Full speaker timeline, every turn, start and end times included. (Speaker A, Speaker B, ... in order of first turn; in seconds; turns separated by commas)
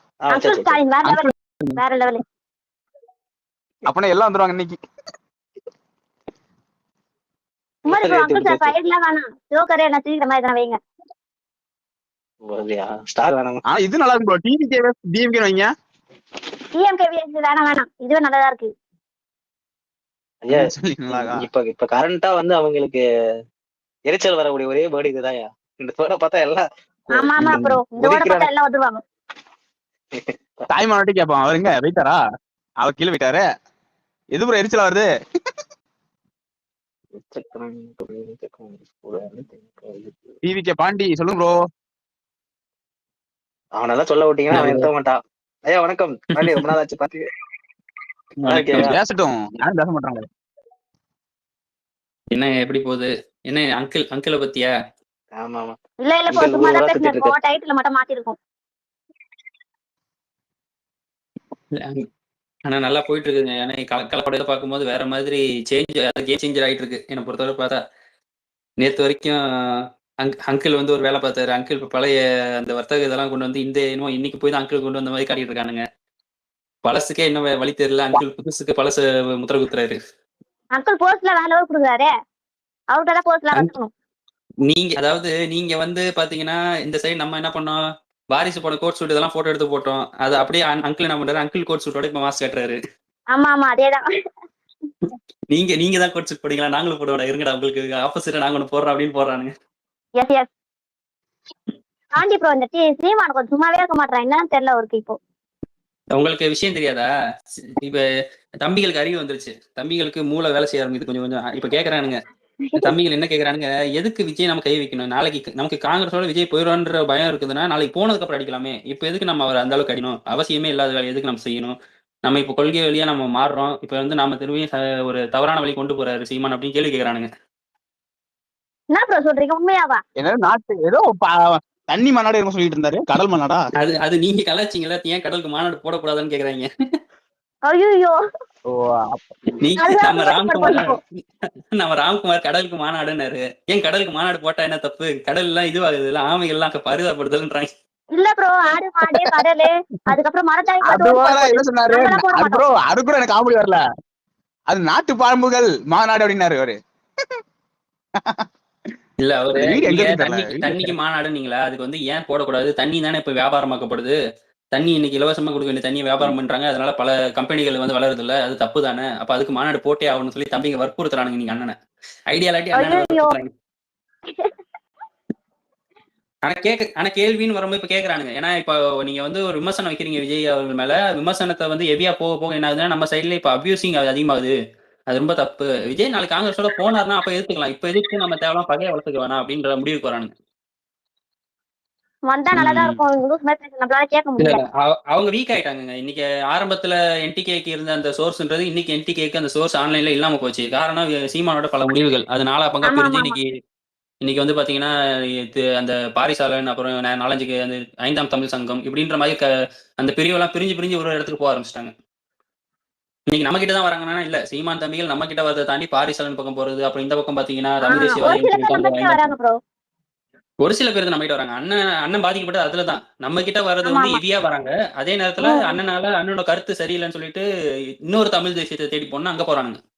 Speaker A: 0.2-0.8, Speaker B: 0.3-2.2, Speaker C: 1.0-1.8, Speaker C: 3.9-4.8, Speaker A: 7.8-8.7, Speaker B: 7.9-10.8, Speaker A: 12.4-13.6, Speaker C: 13.7-15.7, Speaker B: 16.8-18.7, Speaker A: 20.4-23.0, Speaker C: 20.5-21.4, Speaker A: 24.1-28.5, Speaker B: 27.1-29.0, Speaker C: 27.4-27.8, Speaker A: 30.1-30.6, Speaker C: 30.7-32.2, Speaker C: 32.8-33.4, Speaker C: 34.3-35.1, Speaker A: 37.2-40.3, Speaker C: 40.4-41.5, Speaker A: 43.8-47.2, Speaker D: 44.5-44.9, Speaker D: 48.4-48.9, Speaker A: 48.5-48.9, Speaker C: 48.7-50.2, Speaker D: 52.3-54.7, Speaker A: 55.3-55.8, Speaker B: 56.0-58.4, Speaker A: 56.3-57.3, Speaker D: 61.7-62.0, Speaker D: 62.6-67.8, Speaker D: 68.8-75.8, Speaker D: 76.8-80.0, Speaker B: 80.8-82.1, Speaker B: 82.9-83.9, Speaker D: 84.7-92.8, Speaker B: 93.3-94.0, Speaker D: 95.5-99.5, Speaker B: 100.2-100.5, Speaker B: 102.1-105.2, Speaker D: 106.1-107.1, Speaker D: 107.6-108.0, Speaker D: 108.6-112.2, Speaker D: 112.8-127.3, Speaker B: 128.9-130.0, Speaker C: 130.2-133.7, Speaker D: 133.8-136.7, Speaker B: 137.7-138.1, Speaker C: 138.7-139.3, Speaker D: 139.6-141.2, Speaker B: 139.8-141.0, Speaker D: 141.7-147.7, Speaker B: 148.2-152.6, Speaker C: 150.8-153.8, Speaker C: 154.7-156.7, Speaker D: 159.2-164.2, Speaker C: 159.5-160.9, Speaker D: 164.7-171.7, Speaker D: 172.3-173.5, Speaker B: 172.7-173.3, Speaker D: 176.4-184.5, Speaker D: 185.1-190.3, Speaker B: 192.3-194.6, Speaker D: 192.5-193.0, Speaker D: 194.4-203.5, Speaker B: 202.8-203.3, Speaker D: 204.2-209.5, Speaker D: 210.0-211.9, Speaker D: 213.3-219.3, Speaker B: 217.8-219.6, Speaker D: 220.6-227.4, Speaker B: 223.8-224.2, Speaker B: 225.4-225.8, Speaker D: 228.1-229.8